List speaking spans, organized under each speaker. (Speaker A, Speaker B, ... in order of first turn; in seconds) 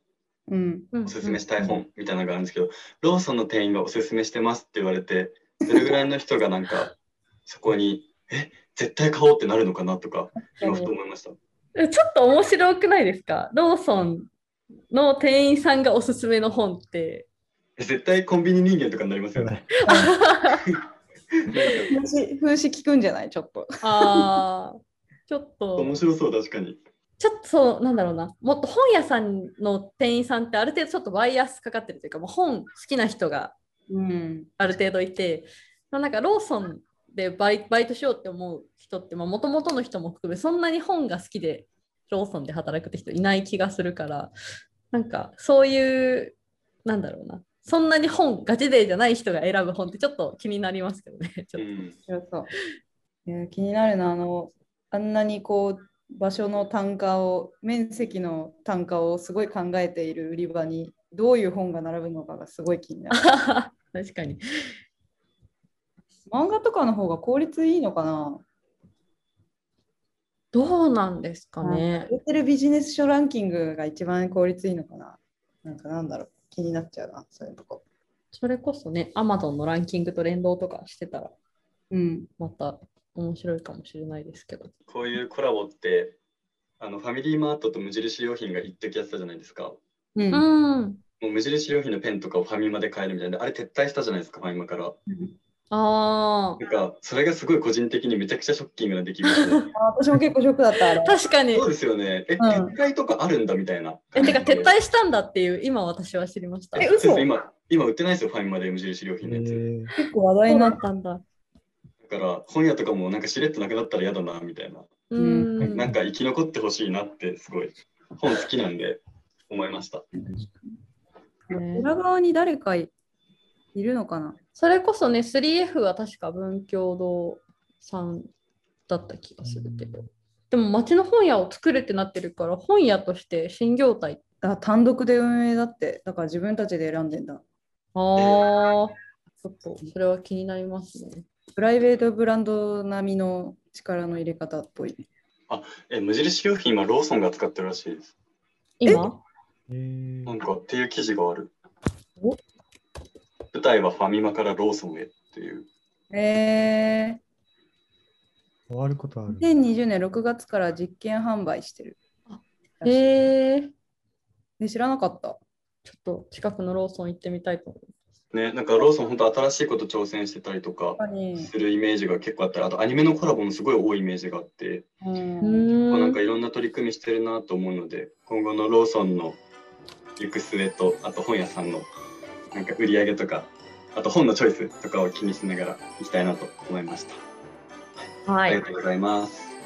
Speaker A: 0.5-0.9, 10.5-10.9, 19.9-20.1, 21.9-24.3, 33.9-34.5, 52.1-52.5, 53.2-63.2, 66.3-68.4, 71.6-77.8, 81.9-82.3, 90.2-90.5, 95.1-95.3, 99.7-101.2, 102.4-102.7, 106.8-107.3, 110.0-110.8, 115.2-115.5, 121.7-122.9, 123.7-124.4, 134.4-137.4, 141.6-145.0, 156.1-157.2, 159.3-162.0, 162.8-163.2, 164.6-165.4, 171.0-171.5, 175.0-175.8
Speaker B: 0.9-1.4, 11.7-14.3, 14.9-17.3, 19.9-20.6, 23.8-25.9, 27.2-33.5, 34.6-44.3, 44.9-51.6, 63.1-64.4, 70.5-72.1, 78.3-81.3, 82.4-84.7, 90.3-91.0, 95.7-96.6, 99.3-99.6, 101.0-101.7, 104.1-106.9, 110.5-111.2, 115.1-115.8, 121.5-121.9, 124.5-128.3, 128.9-134.2, 137.9-141.2, 148.8-149.2, 162.3-163.7, 165.8-167.9, 175.4-176.2, 188.2-188.6
Speaker C: 1.0-6.9, 7.5-11.4, 17.8-19.6, 20.5-20.8, 21.5-22.0, 25.8-26.8, 51.5-52.0, 84.9-86.2, 86.8-89.8, 91.2-95.0, 96.6-99.6, 101.5-104.7, 106.8-109.6, 112.0-114.9, 115.7-120.0, 138.2-138.4, 145.5-148.1, 150.2-151.5, 153.5-155.7, 168.3-174.9, 175.9-179.4, 180.2-181.9, 182.5-187.2, 188.4-189.6
Speaker D: 19.3-19.6, 109.2-109.9, 115.6-116.0, 129.4-130.1, 149.7-150.3, 158.7-159.5